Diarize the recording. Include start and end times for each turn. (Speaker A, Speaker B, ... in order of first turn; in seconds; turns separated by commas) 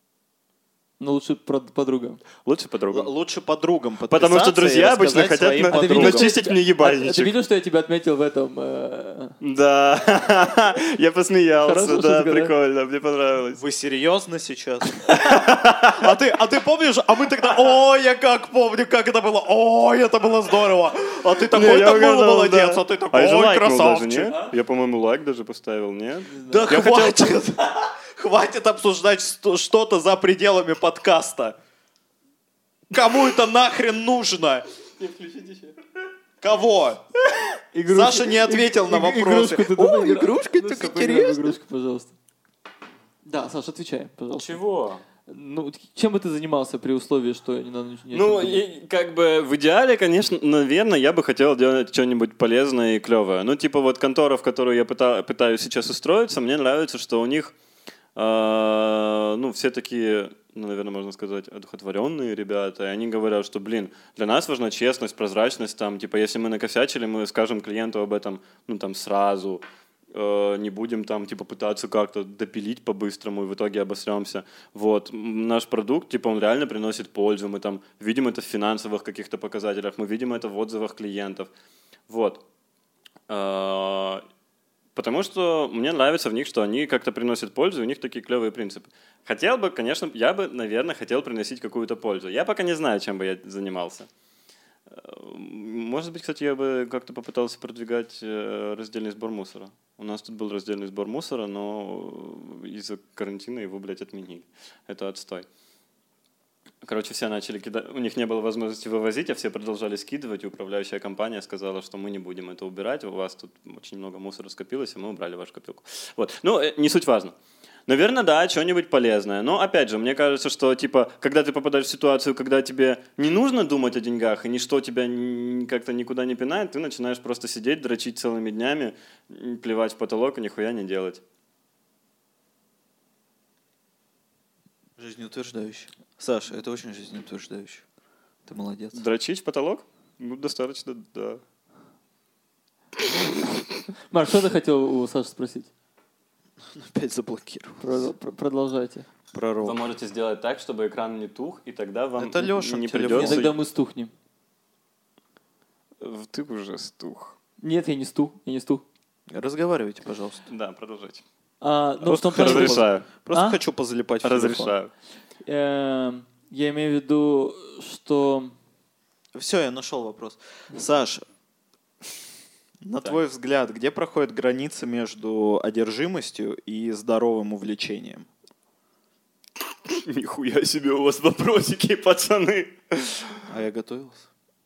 Speaker A: 1.0-2.2, Speaker B: 2.5-3.1, Speaker C: 2.9-6.3, Speaker B: 4.1-7.3, Speaker A: 5.7-9.4, Speaker B: 9.4-13.6, Speaker A: 11.6-12.5, Speaker C: 13.6-24.3, Speaker B: 15.1-16.1, Speaker B: 21.5-27.3, Speaker A: 26.3-26.7, Speaker C: 26.5-31.6, Speaker C: 32.9-34.7, Speaker A: 35.0-35.7, Speaker C: 36.4-37.0, Speaker A: 37.7-42.1, Speaker C: 37.9-41.6, Speaker A: 43.3-44.6, Speaker B: 44.3-45.0, Speaker A: 45.3-48.6, Speaker B: 48.1-57.5, Speaker B: 58.2-81.5, Speaker B: 82.1-82.4, Speaker B: 83.3-84.2, Speaker B: 85.0-94.1, Speaker B: 94.9-105.5, Speaker B: 106.8-117.3, Speaker B: 117.9-131.2, Speaker C: 135.0-137.8, Speaker C: 138.5-139.0, Speaker B: 138.9-141.4, Speaker A: 144.1-145.7, Speaker C: 146.7-147.8, Speaker A: 147.8-149.1, Speaker C: 149.3-149.8, Speaker B: 149.6-153.5, Speaker C: 152.2-153.5, Speaker A: 153.1-154.1, Speaker B: 156.0-157.4, Speaker A: 157.6-158.8, Speaker C: 159.3-160.4, Speaker B: 160.5-161.2, Speaker A: 161.6-163.6, Speaker C: 162.0-164.8, Speaker B: 162.1-163.1, Speaker B: 164.2-164.9, Speaker A: 165.5-168.5, Speaker C: 169.3-171.2, Speaker C: 172.8-178.3, Speaker B: 179.9-183.4, Speaker C: 183.5-184.3